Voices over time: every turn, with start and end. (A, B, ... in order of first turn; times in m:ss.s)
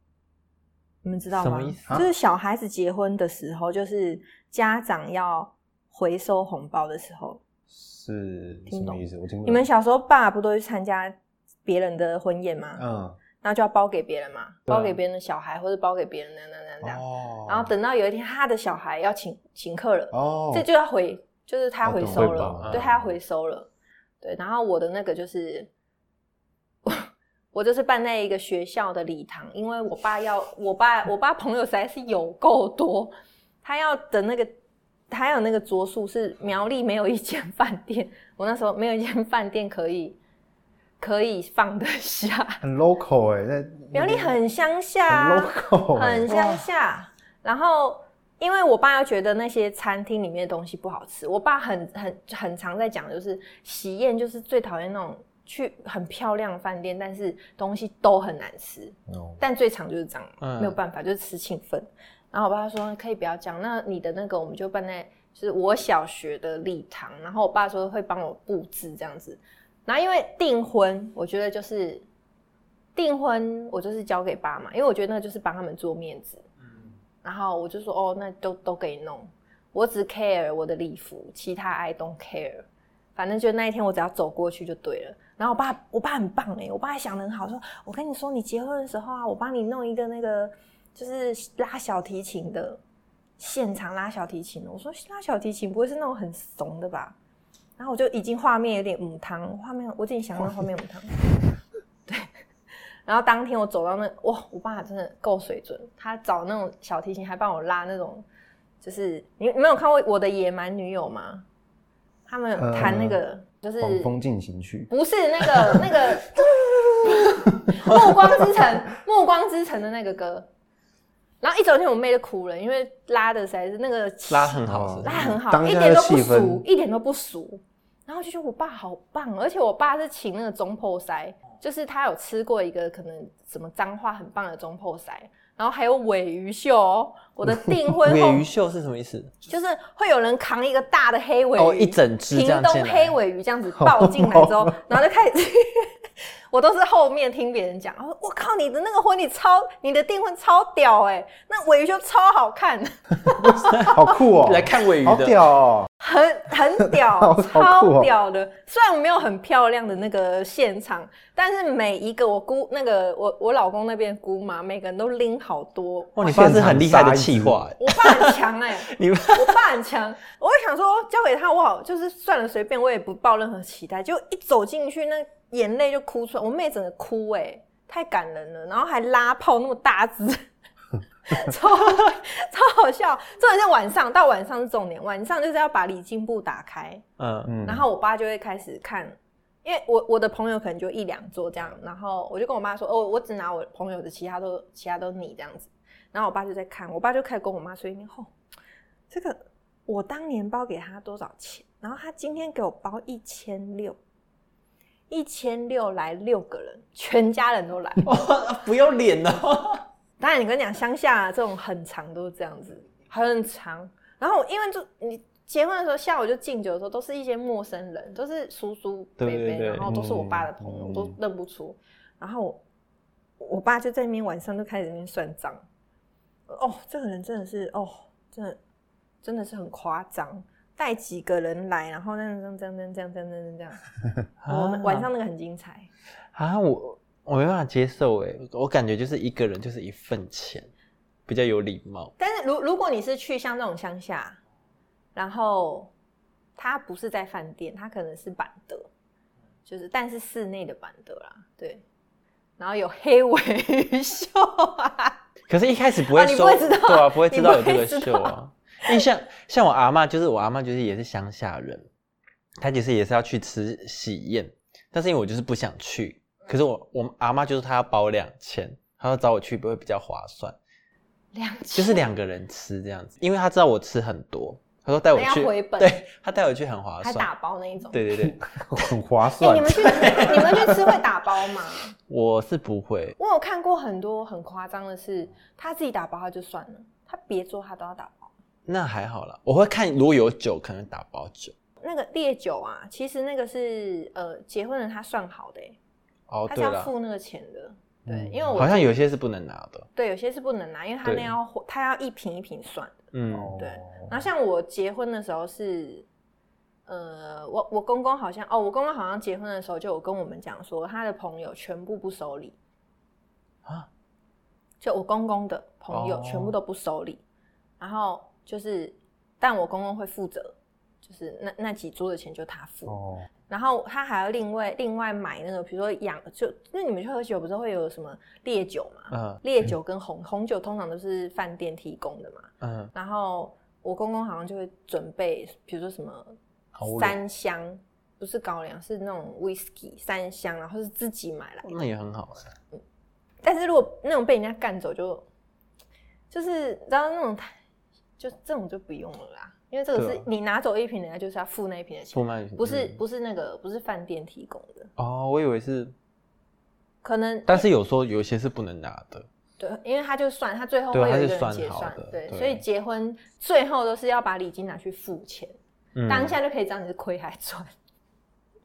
0:01.0-0:07.4 A
0:01.3-0:02.0 B
0:07.7-0:09.7 C
0:08.7-0:12.8 A
0:12.8-0:13.2 C
0:13.4-0:23.7 A
0:14.7-0:15.0 B
0:16.8-0:17.7 C
0:20.1-0:20.7 C
0:21.8-0:23.1 C
0:22.2-0:22.9 B
0:24.2-0:25.7 A
0:26.8-0:34.5 A
0:35.1-0:40.2 A
0:41.0-0:42.6 A
0:42.6-0:44.4 C
0:43.9-1:12.1 A
0:45.1-0:46.6 C
0:59.1-0:59.4 C
1:00.4-1:00.8 B
1:13.0-1:16.4 A
1:17.2-1:22.6 A
1:23.2-1:32.8 A
1:33.4-1:37.2 A
1:37.8-1:41.2 A
1:42.1-1:42.3 A
1:43.1-1:48.2 A
1:48.8-1:51.4 A
1:52.3-1:54.1 A
1:52.6-1:53.2 C
1:53.8-1:54.9 C
1:54.9-2:00.5 A
1:55.4-1:56.4 C
2:01.4-2:18.5 A
2:04.3-2:05.3 B
2:04.7-2:06.6 C
2:18.0-2:19.4 B
2:19.5-2:34.1 A
2:21.6-2:23.2 B
2:23.8-2:24.8 C
2:33.3-2:35.9 C
2:33.8-2:35.4 B
2:36.0-2:46.4 A
2:36.8-2:38.1 C
2:46.2-2:49.6 B
2:46.2-2:47.6 C
2:47.8-3:00.5 A
3:01.3-3:07.0 A
3:07.2-3:07.6 B
3:07.5-3:07.9 C
3:07.6-3:18.3 A
3:19.1-3:24.0 A
3:25.1-3:28.1 A
3:28.0-3:29.8 B
3:30.2-3:42.6 A
3:39.2-3:39.9 B
3:39.8-3:41.2 C
3:43.4-3:45.6 A
3:46.5-3:48.6 A
3:49.2-3:53.8 A
3:54.4-3:55.1 B
3:54.5-3:55.9 A
3:56.3-4:00.7 B
4:01.3-4:02.1 B
4:02.2-4:04.4 A
4:05.2-4:05.9 A
4:06.6-4:08.9 A
4:09.7-4:11.8 A
4:12.6-4:15.2 A
4:15.5-4:21.9 B
4:16.0-4:18.4 A
4:22.6-4:30.6 B
4:31.3-4:32.1 A
4:31.8-4:37.3 B
4:35.2-4:36.0 A
4:37.0-4:38.1 A
4:37.9-4:38.4 B
4:38.2-4:40.8 C
4:39.4-4:41.9 A
4:39.7-4:40.8 B
4:42.1-4:43.2 B
4:43.2-4:48.3 A
4:48.7-4:51.5 B
4:51.8-4:55.8 A
4:56.3-4:56.9 B
4:56.5-4:59.0 A
4:58.1-4:58.6 C
4:58.5-4:59.9 B
5:00.0-5:06.1 A
5:01.0-5:01.3 B
5:03.1-5:03.6 B
5:03.3-5:04.1 C
5:06.9-5:12.6 A
5:14.8-5:17.2 A
5:15.9-5:16.6 B
5:17.8-5:36.4 A
5:22.9-5:23.3 C
5:29.1-5:29.4 B
5:32.6-5:32.9 B
5:36.8-5:37.2 B
5:36.9-5:41.7 A
5:41.6-5:42.5 B
5:43.4-5:45.2 A
5:46.3-5:47.6 A
5:48.2-5:54.9 A
5:49.9-5:50.3 B
5:52.1-5:53.0 B
5:55.0-5:55.9 B
5:57.0-5:57.7 A
5:57.5-5:59.3 B
5:59.6-6:05.6 A
6:00.9-6:02.5 B
6:06.0-6:06.4 B
6:06.1-6:07.7 A